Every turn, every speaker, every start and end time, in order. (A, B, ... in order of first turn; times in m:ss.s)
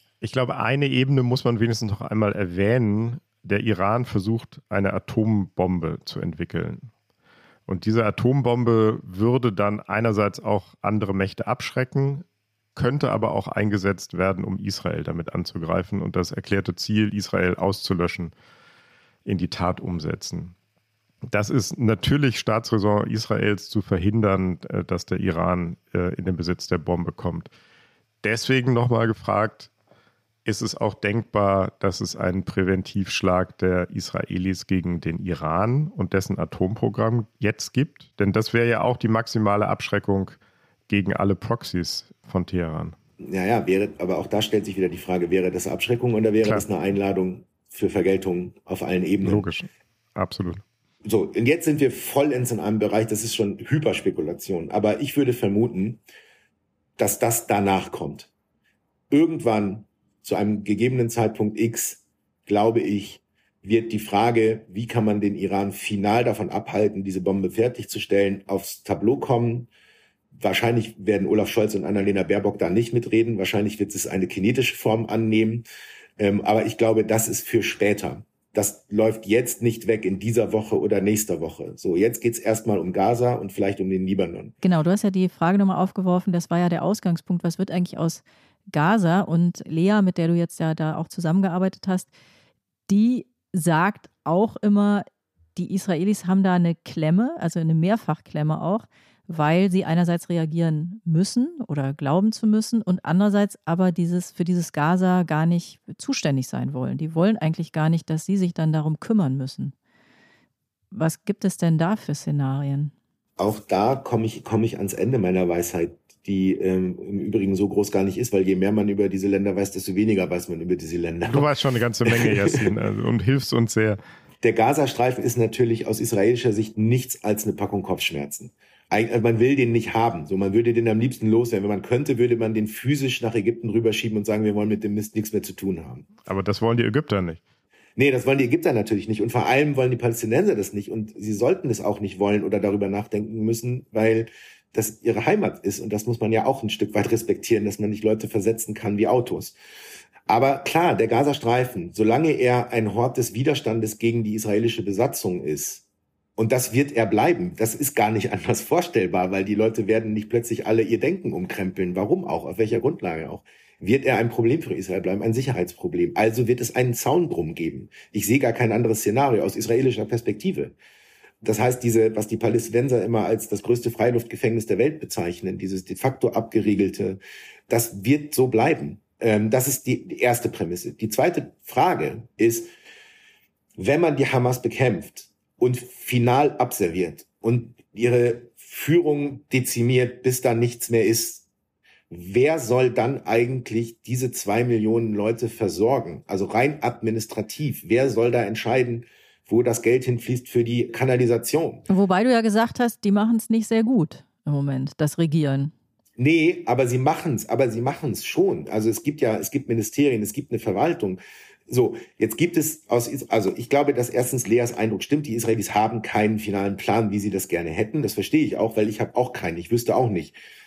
0:00.2-0:06.9 A
0:07.7-0:18.3 A
0:19.2-0:20.5 A
0:21.3-0:27.5 A
0:28.2-0:29.7 A
0:30.4-0:40.4 A
0:40.9-0:42.9 A
0:43.2-0:49.4 B
0:49.2-0:50.6 A
0:51.0-0:56.0 B
0:57.0-0:58.3 B
0:59.1-1:09.7 B
1:10.3-1:15.6 B
1:16.2-1:24.5 B
1:24.6-1:32.1 C
1:32.9-1:49.7 C
1:50.9-1:52.9 C
1:53.4-2:01.5 B
2:01.3-2:04.0 A
2:02.0-2:02.7 B
2:04.4-2:16.1 B
2:16.2-2:17.4 A
2:18.0-2:29.5 B
2:30.3-2:35.8 B
2:36.4-2:50.7 B
2:51.4-3:02.7 B
3:03.8-3:11.5 B
3:12.1-3:21.8 B
3:21.9-3:25.7 C
3:26.2-3:40.4 B